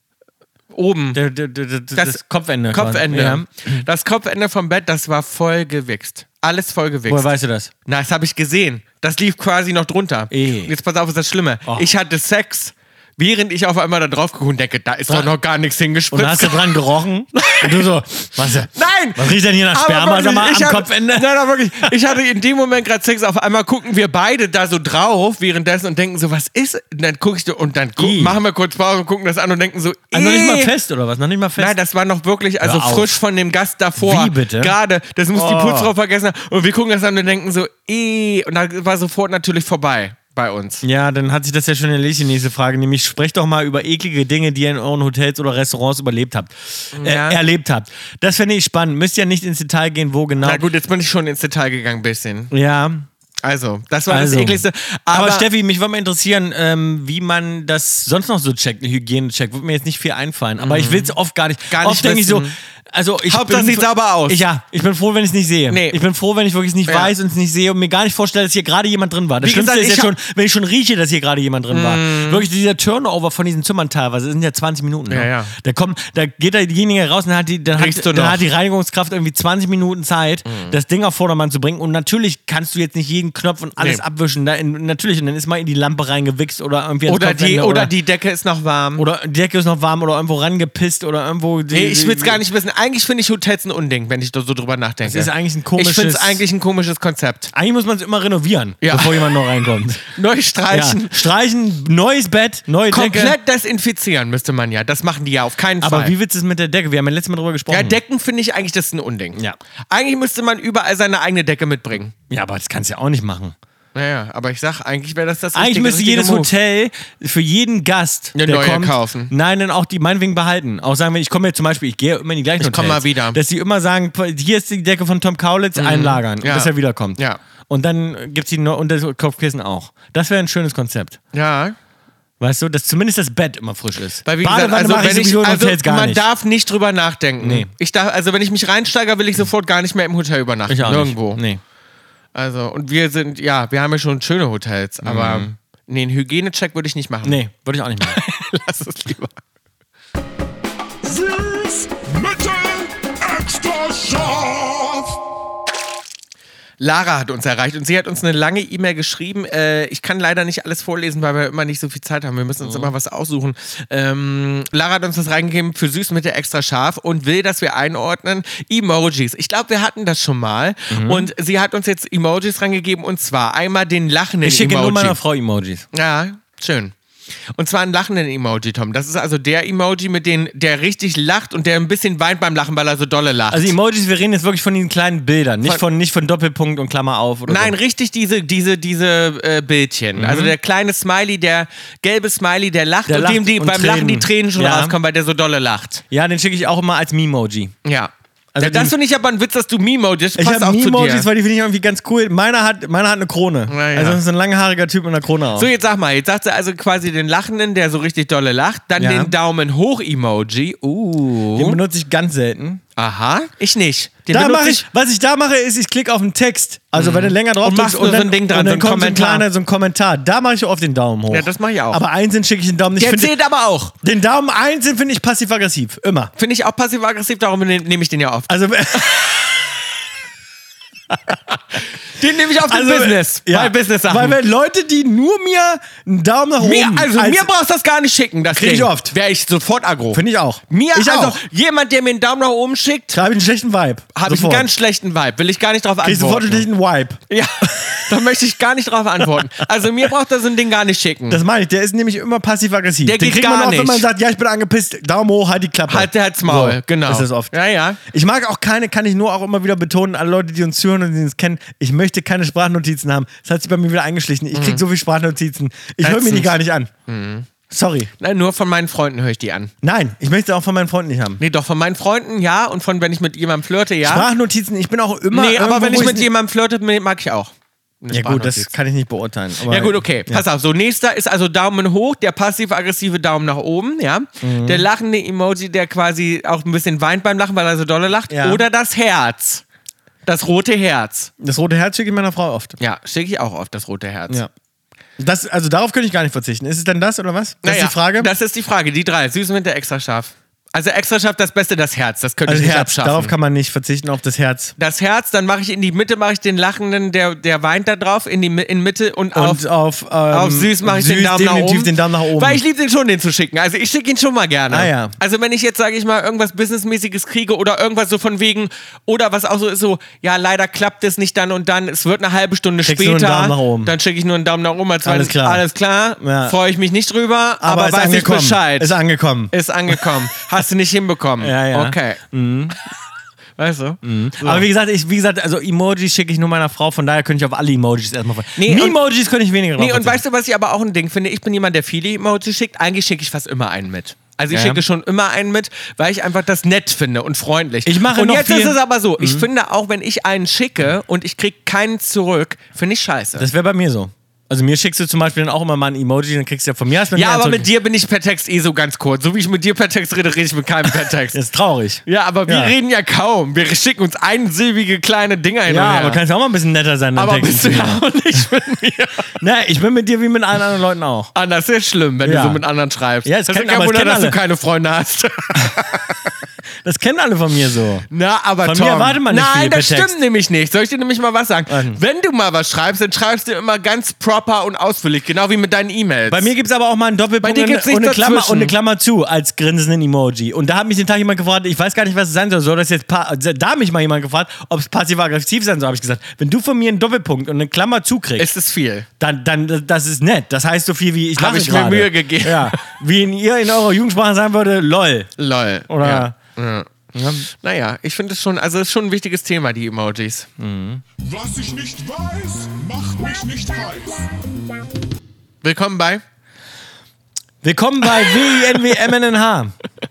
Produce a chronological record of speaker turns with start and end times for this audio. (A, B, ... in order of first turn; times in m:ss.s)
0:00.7-0:01.2 A
0:01.1-0:03.8 B
0:02.0-0:07.3 A
0:07.1-0:07.7 B
0:07.8-0:16.8 A
0:10.3-0:10.7 B
0:16.1-0:21.9 B
0:17.3-0:17.9 A
0:18.4-0:30.7 A
0:28.0-0:28.4 B
0:30.1-0:31.7 B
0:31.6-0:40.8 A
0:32.6-0:33.1 B
0:34.0-0:34.7 B
0:35.3-0:35.9 B
0:40.8-0:50.6 B
0:46.9-0:47.4 A
0:50.4-0:52.5 A
0:52.5-0:53.1 B
0:53.4-0:55.5 A
0:54.1-1:27.9 B
1:00.6-1:01.1 A
1:01.7-1:02.6 A
1:03.2-1:04.4 A
1:05.7-1:06.0 A
1:06.9-1:07.1 A
1:09.4-1:10.1 A
1:11.7-1:12.4 A
1:15.1-1:15.5 A
1:17.7-1:18.4 A
1:20.4-1:20.7 A
1:27.1-1:29.0 A
1:29.0-1:32.4 B
1:31.7-1:37.5 A
1:35.0-1:36.4 B
1:37.5-1:40.1 B
1:38.8-1:39.3 A
1:40.1-1:41.2 A
1:40.7-1:43.4 B
1:42.9-1:46.1 A
1:45.8-1:48.0 B
1:47.7-1:52.1 A
1:52.3-1:53.5 B
1:53.9-1:56.5 A
1:55.5-2:11.2 B
1:58.3-1:59.3 A
2:02.6-2:03.4 A
2:05.7-2:07.4 A
2:11.3-2:11.8 A
2:12.4-2:16.2 B
2:14.2-2:21.4 A
2:17.4-2:17.7 B
2:20.7-2:21.6 B
2:22.3-2:27.4 A
2:25.0-2:25.5 B
2:27.2-2:28.2 B
2:28.0-2:29.4 A
2:31.0-2:35.2 C
2:36.8-2:55.2 A
2:42.6-2:42.9 B
2:50.9-2:51.3 B
2:54.4-2:55.8 B
2:55.9-2:56.9 A
2:57.6-3:03.7 A
3:03.5-3:07.7 B
3:07.5-3:16.0 A
3:10.2-3:10.5 B
3:13.1-3:14.9 B
3:16.1-3:17.7 B
3:17.8-3:21.3 A
3:18.5-3:18.9 B
3:20.4-3:25.7 B
3:23.7-3:24.2 A
3:25.5-3:31.8 A
3:29.0-3:29.3 B
3:31.5-3:32.8 B
3:33.0-3:34.8 A
3:34.3-3:43.3 B
3:37.0-3:39.4 A
3:41.3-3:42.0 A
3:43.0-3:43.9 A
3:44.0-3:46.3 B
3:46.4-3:48.5 A
3:48.5-3:49.8 B
3:51.1-3:51.4 B
3:52.1-3:54.4 A
3:52.7-3:57.5 B
3:56.6-4:03.2 A
3:58.5-3:59.1 B
4:00.1-4:01.4 B
4:03.1-4:04.7 B
4:04.1-4:06.6 A
4:06.0-4:08.2 B
4:07.3-4:11.4 A
4:11.3-4:26.9 B
4:13.0-4:14.1 A
4:15.9-4:18.0 A
4:24.5-4:24.8 A
4:26.0-4:26.5 A
4:27.1-4:27.5 A
4:27.7-4:28.1 B
4:28.2-4:29.7 A
4:29.8-4:31.4 B
4:31.4-4:34.3 A
4:34.0-4:36.3 B
4:35.3-4:38.7 A
4:38.1-4:40.4 B
4:39.6-4:49.6 A
4:44.4-4:44.8 B
4:48.3-4:48.6 B
4:50.2-4:51.3 A
4:51.4-4:52.8 B
4:52.8-4:54.4 A
4:55.2-4:58.3 B
4:57.6-5:03.3 A
5:02.4-5:04.7 B
5:04.8-5:09.6 A
5:09.3-5:12.6 B
5:10.3-5:28.9 A
5:14.7-5:15.1 B
5:22.8-5:23.9 B
5:25.0-5:25.6 B
5:26.2-5:26.6 B
5:27.6-5:30.0 B
5:29.5-5:32.2 A
5:31.4-5:32.8 B
5:33.6-5:34.6 A
5:34.0-5:40.2 B
5:38.5-5:39.0 A
5:39.8-5:53.5 A
5:44.5-5:44.8 B
5:47.8-5:49.4 B
5:53.4-5:57.7 B
5:57.1-6:01.4 A
6:01.3-6:02.7 B
6:02.0-6:06.2 A
6:05.7-6:08.0 B
6:07.2-6:09.3 A
6:09.4-6:11.3 B
6:11.3-6:16.3 A
6:12.2-6:12.6 B
6:13.2-6:14.4 B
6:16.8-6:18.1 B
6:18.1-6:26.5 A
6:18.6-6:20.2 B
6:21.7-6:22.0 B
6:26.3-6:38.5 B
6:27.4-6:28.7 A
6:38.4-6:39.1 A
6:39.2-6:45.3 B
6:41.4-6:42.8 A
6:45.4-6:50.5 A
6:45.9-6:46.4 B
6:47.1-6:47.4 B
6:50.6-6:51.0 B
6:51.2-6:54.3 C
6:55.6-6:56.2 A
6:57.6-6:59.8 B
6:58.2-6:58.8 A